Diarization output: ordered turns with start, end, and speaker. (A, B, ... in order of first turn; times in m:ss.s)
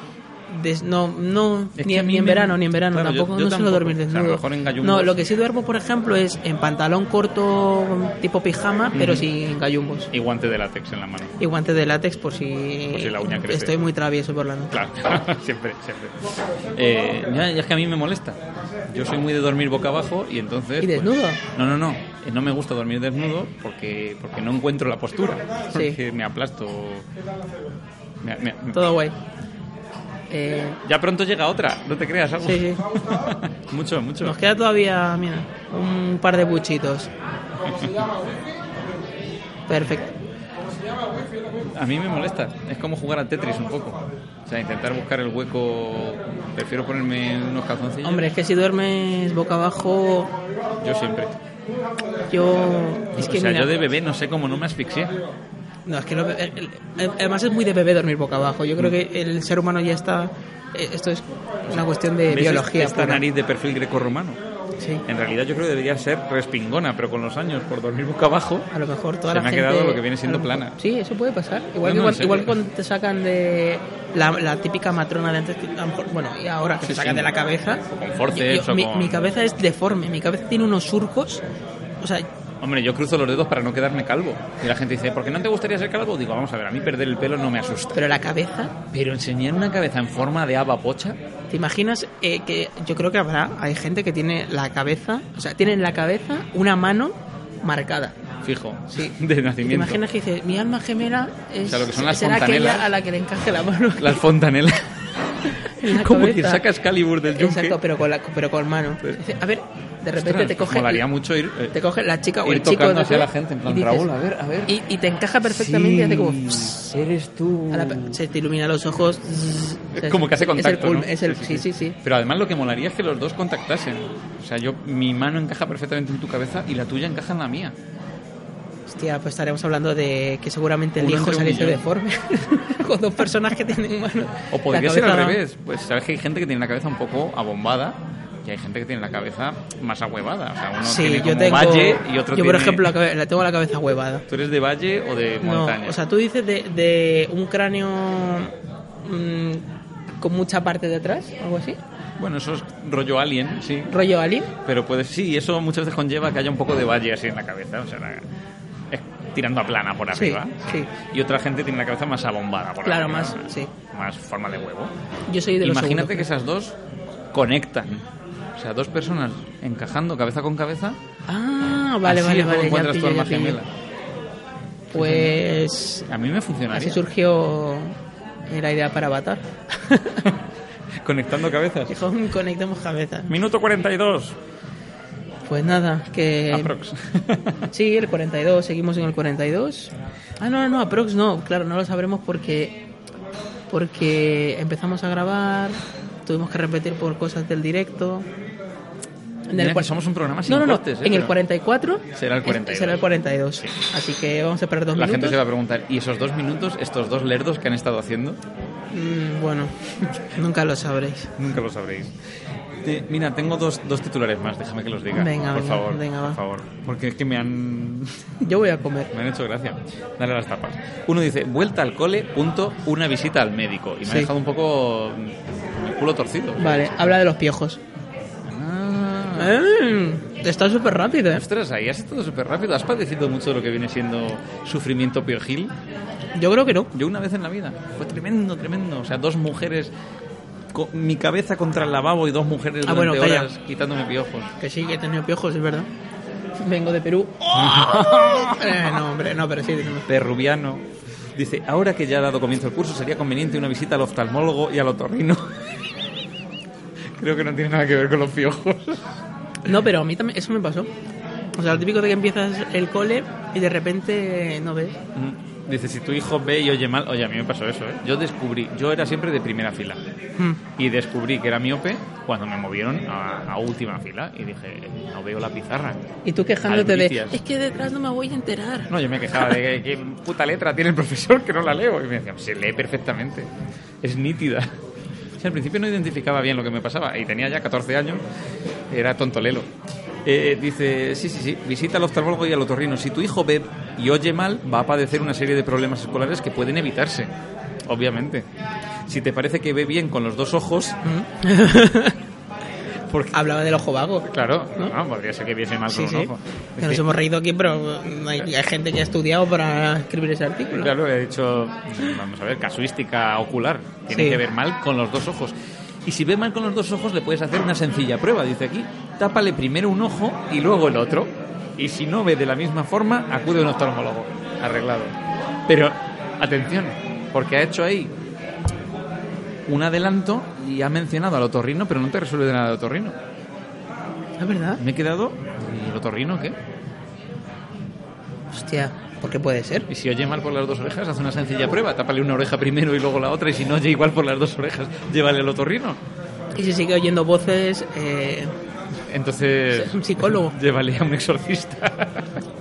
0:00.5-0:10.1 A
0:01.8-0:05.2 B
0:08.9-0:09.3 B
0:10.1-0:11.4 B
0:11.4-0:14.8 A
0:12.9-0:13.7 B
0:14.7-0:16.2 B
0:16.8-0:27.1 B
0:20.8-0:21.4 A
0:28.2-0:28.8 B
0:28.7-0:29.1 A
0:30.3-0:30.8 A
0:30.8-0:34.4 B
0:32.4-0:32.8 A
0:34.2-0:37.1 A
0:39.7-0:40.1 A
0:41.7-0:48.2 B
0:48.0-0:50.3 A
0:50.8-0:51.4 B
0:52.3-0:53.7 A
0:53.2-0:55.2 B
0:55.9-1:03.2 A
1:01.7-1:04.4 B
1:05.1-1:08.7 B
1:08.7-1:21.4 A
1:09.3-1:10.8 B
1:11.8-1:12.6 B
1:16.8-1:17.3 B
1:17.9-1:19.3 B
1:22.0-1:22.3 A
1:22.6-1:28.0 B
1:28.0-1:28.8 A
1:28.9-1:31.2 B
1:31.5-1:38.2 A
1:38.4-1:40.0 B
1:39.6-1:44.2 A
1:41.7-1:42.9 B
1:44.0-1:44.9 B
1:45.6-1:46.6 A
1:45.8-1:47.8 B
1:47.3-1:51.0 A
1:50.2-1:51.8 B
1:51.7-1:54.1 A
1:52.4-1:54.8 B
1:54.7-1:56.8 A
1:55.4-1:58.2 B
1:57.7-2:02.0 A
1:59.9-2:07.8 B
2:08.9-2:15.4 A
2:11.0-2:11.8 B
2:14.5-2:22.9 B
2:20.8-2:24.3 A
2:24.3-2:26.0 B
2:25.4-2:29.6 A
2:30.2-2:31.8 A
2:32.2-2:33.9 B
2:33.9-2:34.5 A
2:34.6-2:38.2 B
2:38.9-2:44.9 B
2:40.1-2:40.9 A
2:42.8-2:43.7 A
2:45.3-2:46.3 A
2:45.6-2:46.8 B
2:47.3-2:48.0 B
2:48.6-2:51.0 B
2:51.3-2:53.6 A
2:52.1-2:53.7 B
2:54.9-2:56.1 A
2:55.0-2:55.4 B
2:56.1-2:57.0 B
2:56.7-2:58.0 A
2:58.5-3:00.2 A
3:01.0-3:01.9 B
3:01.9-3:03.3 A
3:03.3-3:04.4 B
3:05.5-3:06.7 A
3:06.5-3:07.6 B
3:07.7-3:12.8 A
3:13.7-3:18.3 A
3:19.5-3:19.9 A
3:19.6-3:21.3 B
3:20.5-3:25.4 A
3:22.1-3:23.0 B
3:25.0-3:28.4 B
3:28.9-3:31.3 A
3:31.4-3:32.1 B
3:32.8-3:38.2 B
3:35.1-3:36.4 A
3:38.4-3:39.1 A
3:39.1-3:47.1 B
3:46.6-3:47.8 A
3:48.5-3:49.6 B
3:49.4-3:51.4 A
3:51.4-3:55.7 B
3:56.4-3:56.9 A
3:56.9-3:59.9 B
4:00.7-4:04.5 B
4:02.8-4:03.5 A
4:04.6-4:05.9 A
4:06.6-4:10.1 A
4:07.5-4:08.8 B
4:10.1-4:10.8 B
4:11.4-4:15.5 B
4:17.2-4:19.1 B
4:19.7-4:20.9 A
4:21.6-4:25.0 A
4:25.2-4:30.0 B
4:30.8-4:36.0 B
4:36.3-4:38.9 A
4:36.6-4:37.4 B
4:38.9-4:43.5 B
4:44.0-4:44.7 B
4:45.4-4:48.2 B
4:48.9-4:49.7 B
4:50.3-4:57.3 B
4:57.9-4:58.5 B
4:59.1-5:01.0 B
5:01.0-5:02.2 A
5:03.1-5:03.3 B
5:03.3-5:04.3 A
5:04.3-5:07.0 B
5:05.9-5:10.9 A
5:10.7-5:15.5 B
5:14.1-5:14.4 A
5:16.1-5:25.1 B
5:25.7-5:28.1 B
5:29.7-5:33.2 B
5:34.4-5:34.8 A
5:34.8-5:36.6 B
5:38.5-5:39.9 A
5:39.9-5:46.0 B
5:46.6-5:48.5 A
5:49.1-5:52.4 B
5:49.7-5:50.6 A